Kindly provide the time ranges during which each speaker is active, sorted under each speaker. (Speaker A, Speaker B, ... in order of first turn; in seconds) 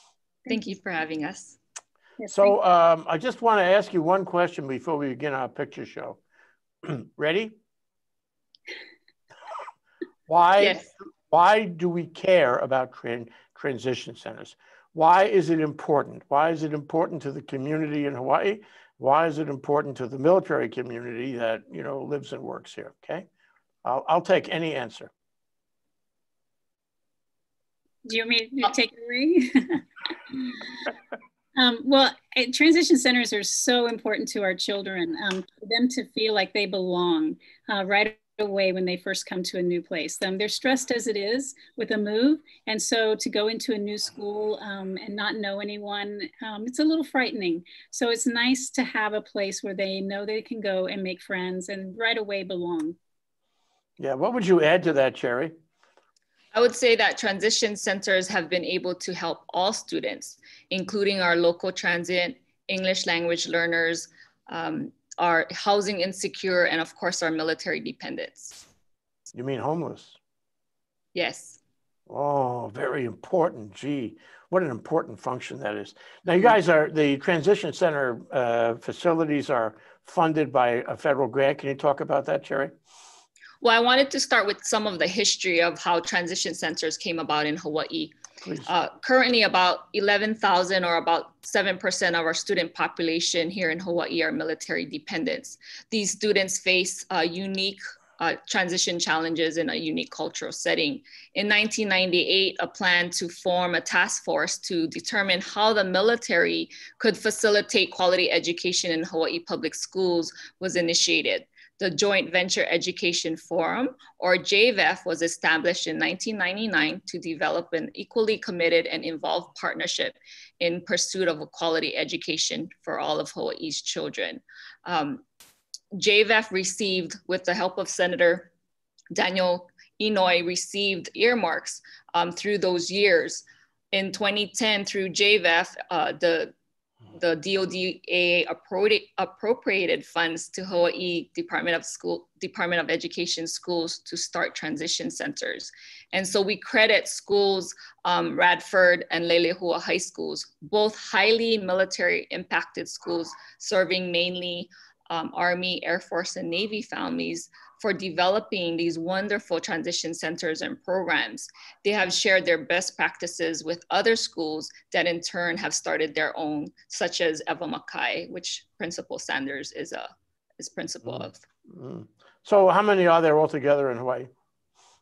Speaker A: 0.5-1.6, 10.6-10.9, 56.5-68.7, 71.2-71.6, 83.6-88.2, 88.7-125.2, 125.9-128.5, 129.1-136.5, 137.1-170.1, 170.6-171.4
Speaker B: 2.2-2.5, 28.1-29.8, 31.6-53.0
Speaker C: 2.3-6.2, 6.8-7.5, 10.3-23.3, 23.8-25.1, 54.0-55.5, 69.3-70.2, 72.1-82.7, 88.4-88.7, 171.1-174.3